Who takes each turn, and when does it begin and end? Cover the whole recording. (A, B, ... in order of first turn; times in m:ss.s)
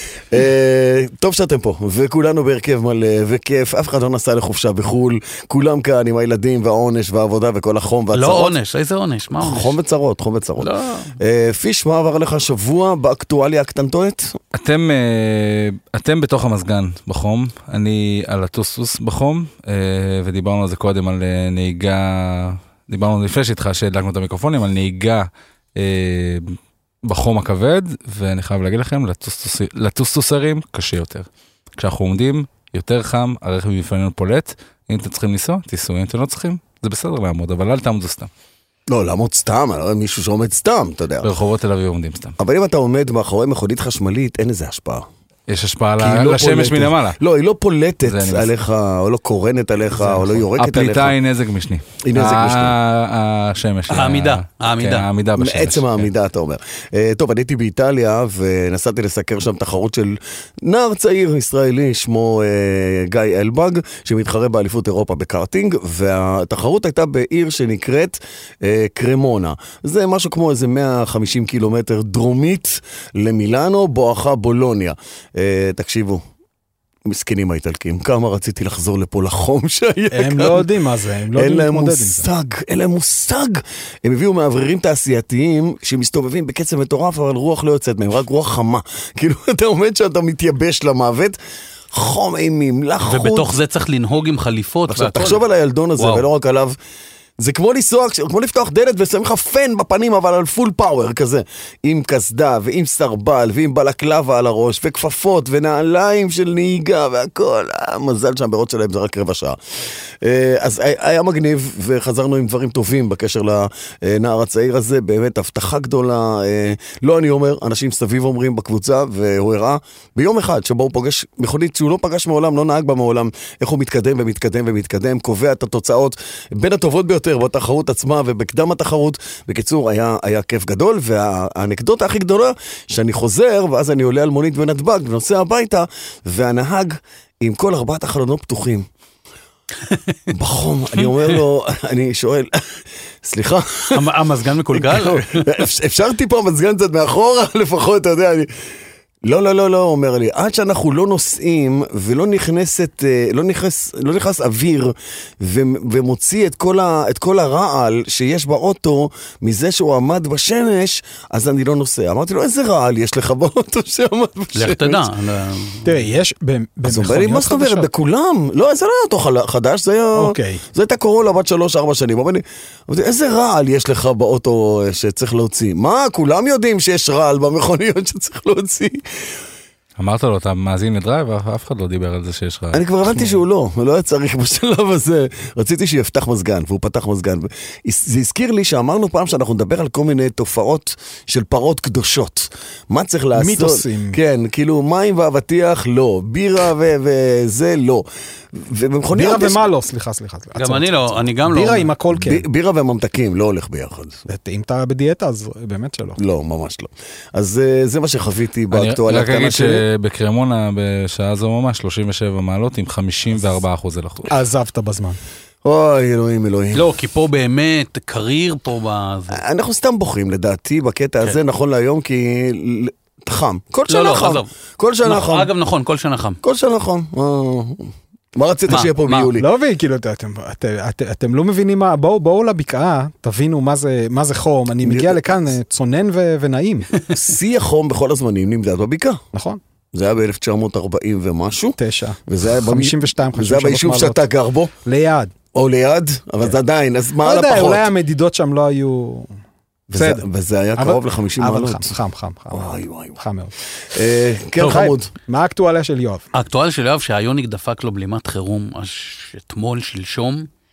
0:00.3-0:08.6 A
0:08.1-0:09.8 B
0:09.4-0:14.4 A
0:10.6-0:11.1 B
0:14.5-0:38.3 C
0:38.9-0:41.3 A
0:41.2-0:42.3 C
0:42.4-0:45.0 A
0:45.5-0:47.2 C
0:46.0-0:51.2 A
0:48.0-0:48.5 C
0:50.0-0:56.1 C
0:52.0-0:52.7 A
0:53.9-0:55.1 B
0:55.4-1:16.2 A
1:17.0-1:20.7 A
1:20.1-1:22.3 D
1:21.3-1:31.4 A
1:31.9-1:33.5 A
1:33.0-1:35.4 B
1:34.9-1:36.8 A
1:36.0-1:36.2 B
1:37.4-1:49.6 A
1:50.2-2:18.9 A
2:20.3-2:24.1 A
2:23.9-2:25.6 B
2:24.7-2:28.5 A
2:29.2-2:45.1 A
2:44.6-2:46.0 B
2:45.8-2:47.9 D
2:46.8-2:59.0 A
2:50.1-2:50.6 D
3:00.0-3:02.8 C
3:02.7-3:19.6 A
3:13.3-3:14.2 D
3:19.1-3:22.4 D
3:20.6-3:21.9 B
3:22.2-3:24.2 A
3:24.3-3:26.2 D
3:26.2-3:29.8 A
3:28.7-3:34.3 C
3:34.3-3:35.2 D
3:35.6-3:36.8 A
3:36.7-3:39.4 B
3:39.3-3:45.5 A
3:43.9-3:44.5 B
3:45.0-3:46.4 B
3:46.4-3:49.5 A
3:48.7-3:49.3 B
3:49.4-3:56.9 D
3:54.8-3:55.2 A
3:57.1-3:59.2 A
3:59.3-3:59.6 D
3:59.9-4:04.7 A
4:01.8-4:04.2 D
4:04.8-4:05.3 D
4:05.5-4:07.9 A
4:07.2-4:09.3 D
4:09.9-4:11.9 A
4:09.9-4:10.2 D
4:10.8-4:13.5 D
4:12.5-4:13.2 A
4:13.9-4:15.1 A
4:14.6-4:16.2 D
4:16.3-4:20.5 B